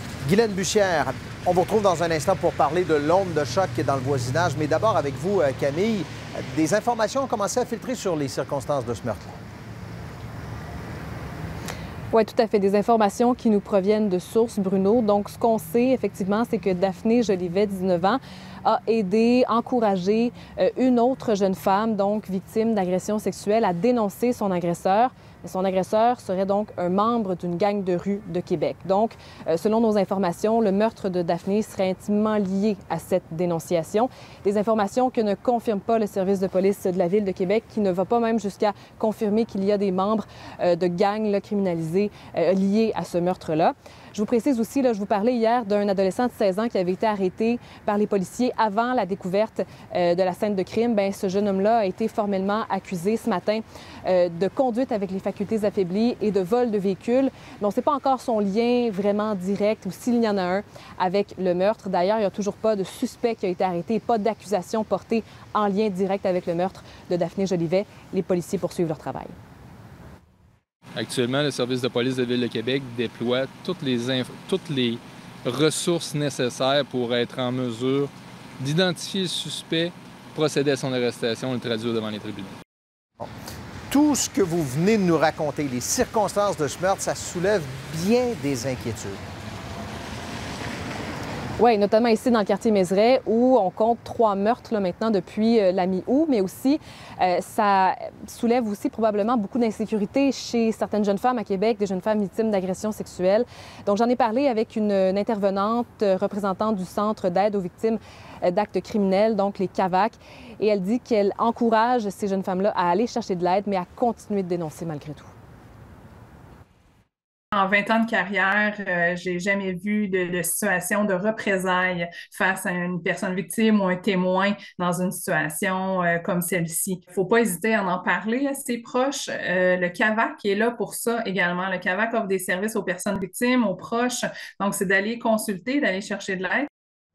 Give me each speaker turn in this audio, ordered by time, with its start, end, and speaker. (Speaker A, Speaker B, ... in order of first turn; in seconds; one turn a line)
Speaker A: 0.2-9.3
Speaker B: 12.1-69.3
Speaker C: 71.0-82.6
Speaker A: 83.9-89.2
Speaker B: 91.6-115.3
Speaker D: 117.5-136.7